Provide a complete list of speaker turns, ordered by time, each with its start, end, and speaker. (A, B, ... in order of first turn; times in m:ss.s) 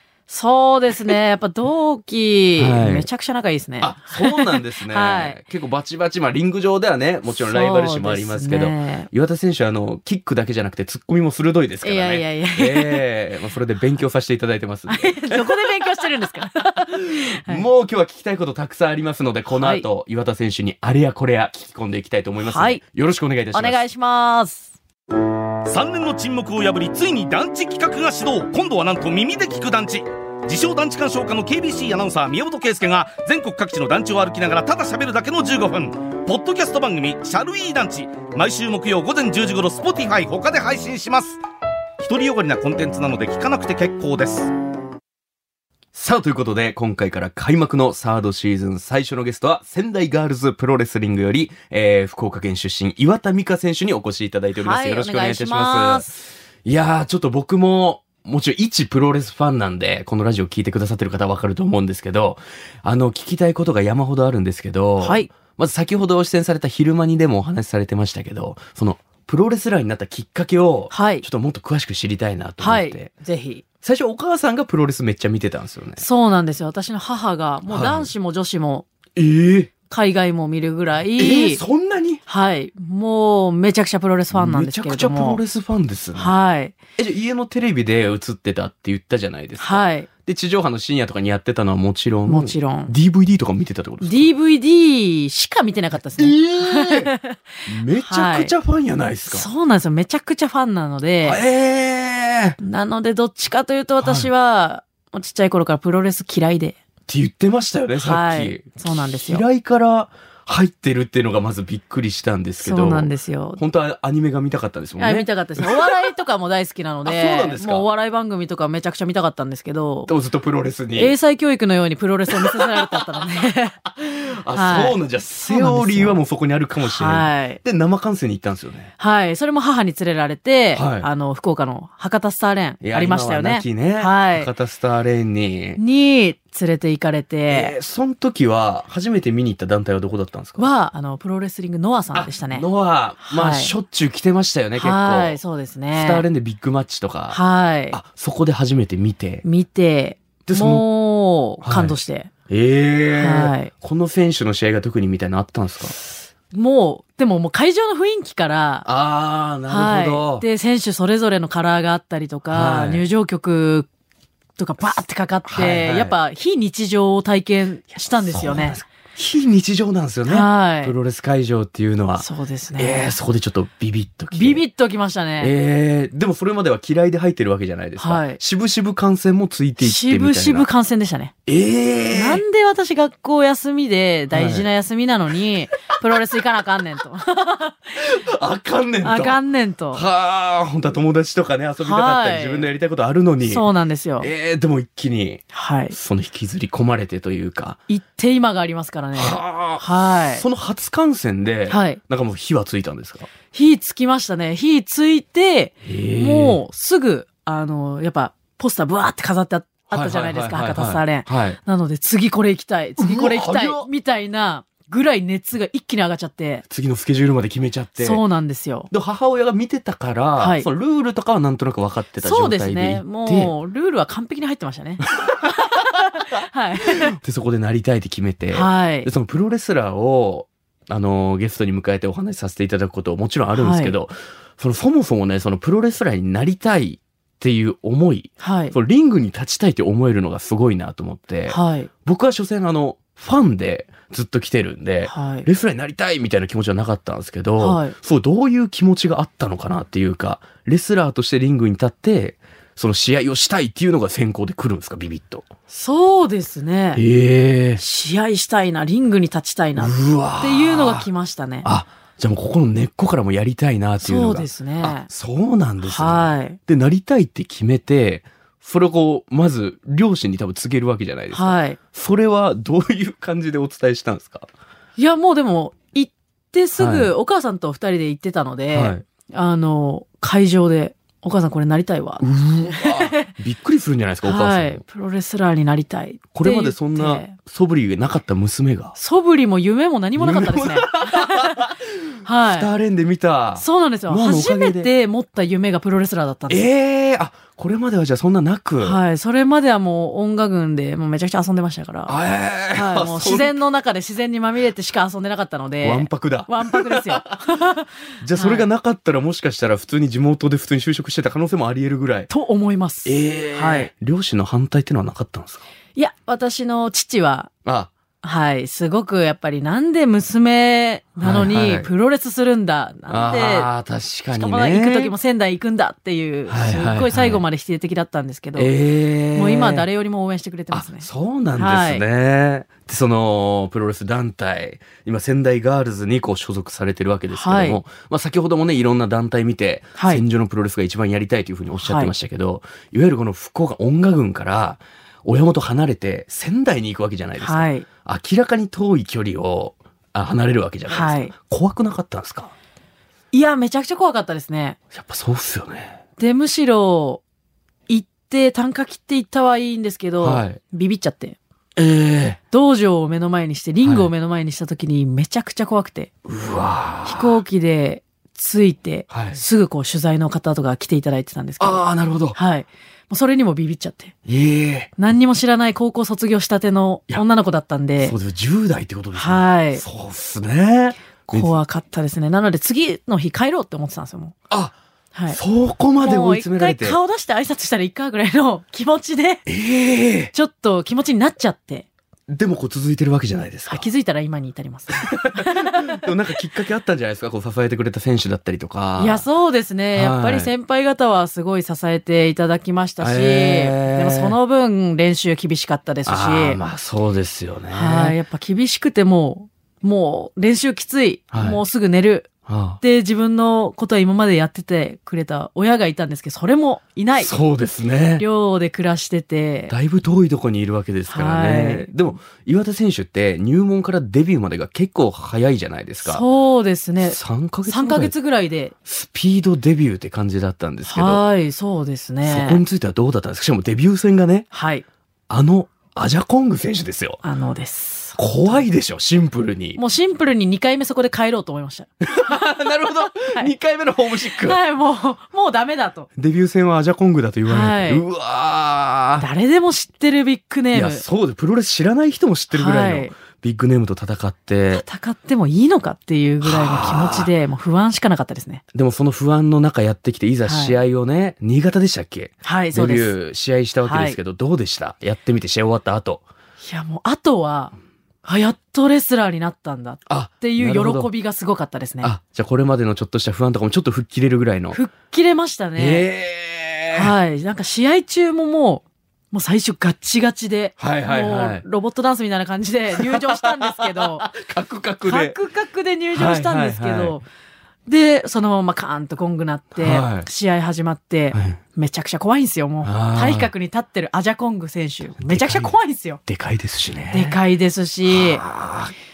0:00.3-0:05.4 A
0:02.6-0:03.1 B
0:03.8-0:15.8 B
0:07.3-0:09.1 A
0:11.8-0:13.0 A
0:14.9-0:17.6 A
0:16.9-0:23.8 B
0:19.5-0:19.8 A
0:22.4-0:22.8 A
0:23.5-0:24.7 A
0:25.6-0:41.4 C
0:42.0-0:44.5 C
0:45.9-0:56.1 B
0:54.5-0:56.2 A
0:56.6-1:13.1 B
1:05.0-1:05.3 A
1:10.9-1:11.2 A
1:12.6-1:13.6 A
1:13.8-1:16.0 B
1:16.0-1:18.8 A
1:17.7-1:18.1 B
1:19.2-1:19.7 B
1:19.9-1:21.6 A
1:21.2-1:22.2 B
1:22.3-1:25.4 A
1:24.3-1:26.3 B
1:26.1-1:26.8 A
1:27.0-1:34.3 B
1:29.6-1:30.1 A
1:32.3-1:32.9 A
1:34.0-1:37.4 A
1:36.2-1:37.1 B
1:37.6-1:39.5 B
1:38.0-1:38.5 A
1:39.3-1:41.4 A
1:41.2-1:42.6 B
1:42.6-1:46.8 A
1:44.0-1:44.3 B
1:47.1-1:55.9 B
1:48.0-1:49.4 A
1:52.6-1:53.6 A
1:55.0-2:00.1 A
1:57.0-1:57.8 B
2:00.1-2:01.1 B
2:00.9-2:03.8 A
2:02.3-2:03.0 B
2:03.8-2:08.9 B
2:04.5-2:06.2 A
2:06.8-2:07.6 A
2:09.0-2:14.5 A
2:10.7-2:11.1 B
2:12.8-2:15.8 B
2:15.8-2:17.7 A
2:17.5-2:20.7 B
2:20.6-2:22.7 A
2:22.1-2:25.4 B
2:23.2-2:23.7 A
2:24.8-2:26.2 A
2:25.9-2:27.4 B
2:27.3-2:28.0 A
2:27.9-2:29.4 B
2:29.4-2:32.3 A
2:30.4-2:30.8 B
2:31.6-2:32.0 B
2:32.5-2:36.0 B
2:33.2-2:33.7 A
2:36.5-2:38.8 A
2:38.8-2:40.4 B
2:39.7-2:43.9 A
2:42.5-2:43.0 B
2:44.6-2:48.8 A
2:45.4-2:46.2 B
2:48.2-2:54.6 B
2:50.2-2:50.9 A
2:52.2-2:53.2 A
2:54.3-2:55.5 A
2:55.4-3:00.7 B
2:58.0-2:58.4 A
2:59.8-3:01.3 A
3:01.4-3:02.4 B
3:02.1-3:08.1 A
3:04.3-3:04.7 B
3:08.0-3:09.4 B
3:09.0-3:10.0 A
3:09.9-3:13.6 B
3:11.8-3:12.7 A
3:13.4-3:14.3 A
3:14.2-3:17.8 B
3:15.5-3:16.0 A
3:17.9-3:20.4 A
3:19.1-3:23.3 B
3:21.7-3:22.0 A
3:23.5-3:36.6 A
3:25.8-3:26.6 B
3:29.9-3:31.6 B
3:33.0-3:33.9 B
3:36.7-3:38.2 B
3:38.0-3:38.9 A
3:38.9-3:43.5 B
3:40.4-3:40.7 A
3:42.2-3:47.2 A
3:45.2-3:45.5 B
3:46.8-4:15.5 B
3:48.5-3:49.1 A
3:53.5-3:53.9 A
3:58.4-3:58.7 A
4:01.5-4:01.9 A
4:05.0-4:05.5 A
4:07.6-4:07.9 A
4:15.7-4:17.0 A
4:16.9-4:17.8 B
4:17.8-4:21.7 A
4:19.8-4:21.1 B
4:21.6-4:34.5 B
4:24.0-4:25.1 A
4:25.8-4:26.6 A
4:31.3-4:31.8 A
4:35.0-4:43.3 A
4:36.8-4:37.1 B
4:38.7-4:39.0 B
4:42.2-4:44.8 B
4:44.2-4:47.4 A
4:46.3-4:49.0 B
4:49.0-4:51.7 A
4:50.2-4:54.9 B
4:52.2-4:52.7 A
4:53.6-4:56.6 A
4:56.5-4:59.0 B
4:58.8-5:02.2 A
5:02.1-5:03.6 B
5:02.7-5:08.7 A
5:05.8-5:07.4 B
5:08.2-5:12.3 B
5:12.3-5:13.9 A
5:13.0-5:15.6 B
5:16.0-5:17.5 A
5:17.6-5:17.9 B
5:18.2-5:23.7 A
5:21.2-5:21.9 B
5:23.1-5:25.1 B
5:24.3-5:28.7 A
5:26.5-5:27.4 B
5:28.6-5:29.8 B
5:29.3-5:32.0 A
5:30.7-5:52.5 B
5:37.3-5:37.8 A
5:40.0-5:40.2 A
5:41.8-5:42.1 A
5:47.4-5:47.8 A
5:50.9-5:51.3 A
5:53.3-5:54.8 A
5:54.9-5:56.0 B
5:56.2-5:57.2 A
5:57.9-6:01.4 A
6:00.2-6:00.6 B
6:01.8-6:02.4 B
6:02.5-6:06.1 A
6:03.8-6:04.1 B
6:06.2-6:07.4 B
6:07.0-6:11.8 A
6:09.1-6:09.4 B
6:11.6-6:12.4 B
6:12.3-6:14.1 A
6:14.2-6:15.0 B
6:15.0-6:18.2 A
6:18.0-6:21.5 B
6:19.1-6:19.8 A
6:21.3-6:24.3 A
6:24.5-6:24.8 B
6:25.1-6:25.4 A
6:25.3-6:27.0 B
6:26.0-6:29.4 A
6:29.4-6:30.3 B
6:30.3-6:31.9 A
6:32.3-6:33.9 B
6:33.7-6:36.0 A
6:34.9-6:39.2 B
6:39.0-6:46.6 A
6:39.9-6:40.5 B
6:43.0-6:44.4 B
6:46.0-6:48.2 B
6:47.7-6:57.3 A
6:51.3-6:51.6 B
6:52.5-6:52.8 B
6:57.2-6:58.2 B
6:58.2-6:59.7 A
6:59.7-7:06.2 B
7:01.1-7:01.9 A
7:06.0-7:08.7 A
7:07.0-7:08.1 B
7:08.8-7:11.2 B
7:10.8-7:12.6 A
7:12.2-7:14.5 B
7:14.5-7:14.8 A
7:15.3-7:17.2 B
7:17.2-7:18.6 A
7:18.2-7:19.8 B
7:19.8-7:23.5 A
7:22.0-7:24.6 B
7:24.1-7:26.1 A
7:26.2-7:29.2 B
7:27.4-7:28.0 A
7:29.2-7:31.0 A
7:30.7-7:34.8 B
7:32.5-7:33.1 A
7:34.7-7:38.6 A
7:36.4-7:37.3 B
7:38.7-7:46.2 B
7:40.4-7:40.8 A
7:42.4-7:43.1 A
7:43.8-7:44.2 A
7:46.6-7:52.1 A
7:50.1-7:51.1 B
7:52.0-7:54.8 B
7:54.7-7:56.0 A
7:55.8-7:57.1 B
7:56.9-8:04.3 A
8:00.8-8:01.6 B
8:02.9-8:05.4 B
8:05.0-8:07.2 A
8:06.1-8:07.2 B
8:07.8-8:16.2 A
8:09.8-8:10.3 B
8:11.3-8:11.6 B
8:12.8-8:13.5 B
8:15.2-8:15.7 B
8:16.2-8:17.4 B
8:17.1-8:18.4 A
8:18.0-8:18.9 B